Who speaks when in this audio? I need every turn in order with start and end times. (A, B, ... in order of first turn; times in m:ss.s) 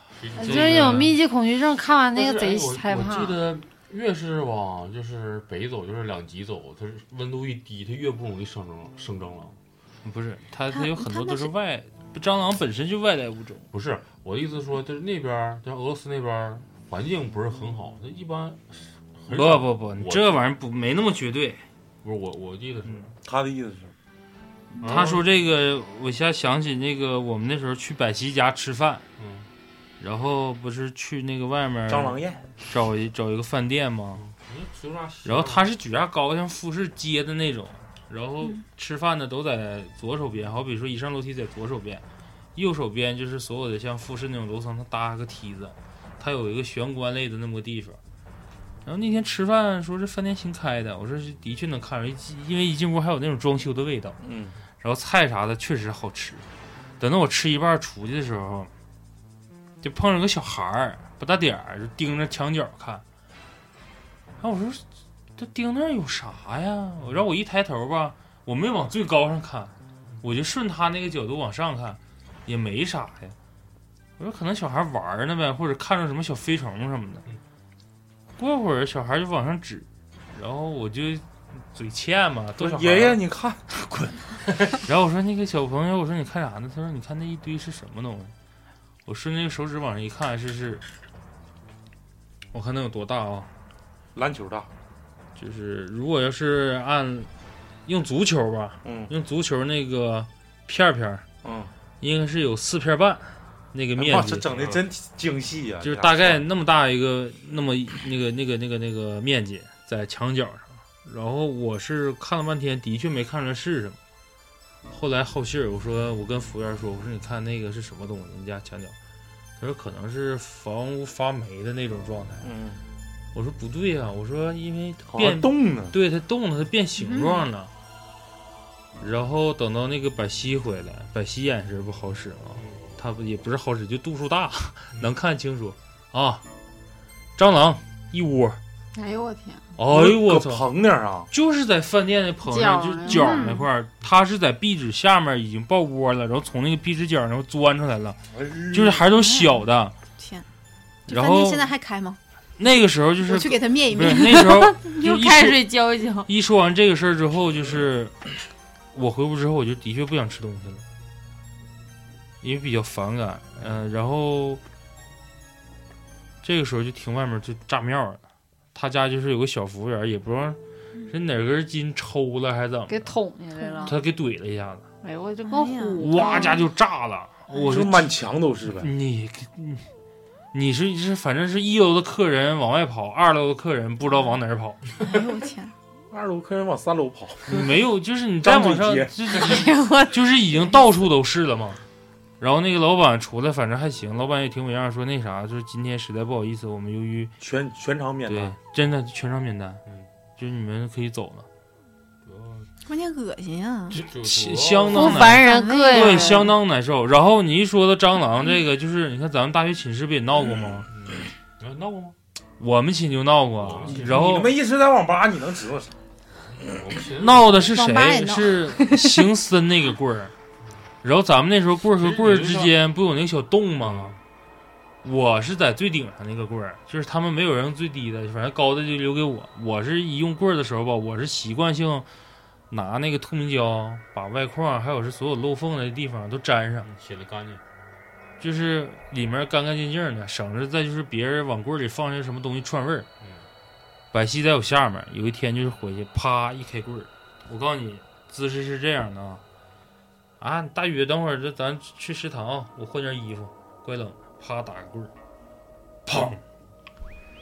0:00.2-0:01.2 A
0:00.4-0:01.1 B
0:00.4-0:03.4 C
0:02.1-0:09.6 A
0:10.0-0:13.7 B
0:10.7-0:11.5 D
0:13.7-0:20.4 A
0:19.3-0:21.6 B
0:22.0-0:23.1 A
0:23.2-0:23.9 E
0:24.8-0:25.2 A
0:24.8-0:29.0 B
0:29.2-0:29.5 A
0:30.0-0:34.2 B
0:31.9-0:32.4 E
0:34.2-0:35.7 A
0:35.2-0:42.0 B
0:42.6-0:48.0 B
0:48.8-0:54.2 B
0:54.2-0:54.5 E
0:54.8-0:56.4 B
0:57.0-0:58.7 B
0:59.8-1:03.0 B
1:04.4-1:04.8 B
1:05.4-1:13.4 B
1:14.2-1:17.2 B
1:18.4-1:23.2 B
1:22.6-1:24.2 E
1:24.8-1:28.3 B
1:29.1-1:30.8 B
1:32.5-1:33.5 B
1:34.2-1:34.7 E
1:35.4-1:37.3 B
1:37.9-1:41.2 B
1:38.8-1:39.1 E
1:41.4-1:41.7 E
1:42.0-1:44.5 B
1:44.0-1:46.4 E
1:44.5-1:44.8 A
1:45.8-1:54.0 B
1:54.9-1:59.0 B
1:59.6-2:02.5 B
2:02.4-2:02.8 E
2:03.3-2:07.7 B
2:05.1-2:06.0 E
2:07.0-2:07.5 D
2:09.0-2:16.4 B
2:12.6-2:12.9 A
2:17.4-2:18.6 B
2:18.9-2:19.6 C
2:19.8-2:20.7 B
2:19.9-2:21.3 E
2:21.3-2:28.2 B
2:22.5-2:23.6 C
2:23.1-2:23.6 D
2:28.3-2:29.0 E
2:28.7-2:29.9 B
2:29.1-2:29.7 D
2:30.2-2:30.5 D
2:31.1-2:32.2 D
2:31.1-2:31.7 B
2:32.6-2:35.6 B
2:33.2-2:35.2 D
2:34.3-2:36.3 C
2:36.3-2:38.2 B
2:38.9-2:40.8 B
2:42.4-2:44.6 B
2:46.4-2:48.2 B
2:48.7-2:50.6 B
2:51.1-2:53.1 B
2:52.9-2:53.9 C
2:53.6-2:53.9 D
2:53.9-2:54.9 B
2:55.0-2:56.6 C
2:55.5-2:56.6 D
2:56.0-2:58.1 B
2:57.6-2:58.9 E
2:58.8-2:59.9 B
3:00.5-3:04.8 B
3:04.1-3:04.4 D
3:05.0-3:05.8 D
3:06.1-3:07.6 E
3:07.5-3:11.8 B
3:08.4-3:09.1 E
3:09.4-3:10.2 C
3:12.4-3:17.3 B
3:17.4-3:18.6 E
3:18.3-3:19.8 B
3:20.4-3:21.5 B
3:22.2-3:22.7 A
3:22.8-3:24.0 D
3:23.9-3:30.9 B
3:23.9-3:25.2 A
3:24.9-3:26.5 C
3:25.0-3:26.5 D
3:30.9-3:32.2 A
3:32.6-3:34.6 B
3:33.6-3:34.3 A
3:33.8-3:36.0 E
3:36.5-3:37.8 A
3:37.2-3:40.3 B
3:37.8-3:38.9 D
3:41.0-3:44.2 B
3:42.0-3:42.7 A
3:43.8-3:44.2 A
3:45.0-3:52.1 B
3:52.7-3:56.9 B
3:56.8-3:57.6 A
3:58.4-4:03.1 B
4:03.2-4:03.5 A
4:04.1-4:09.4 B
4:10.4-4:15.1 B
4:16.1-4:16.4 B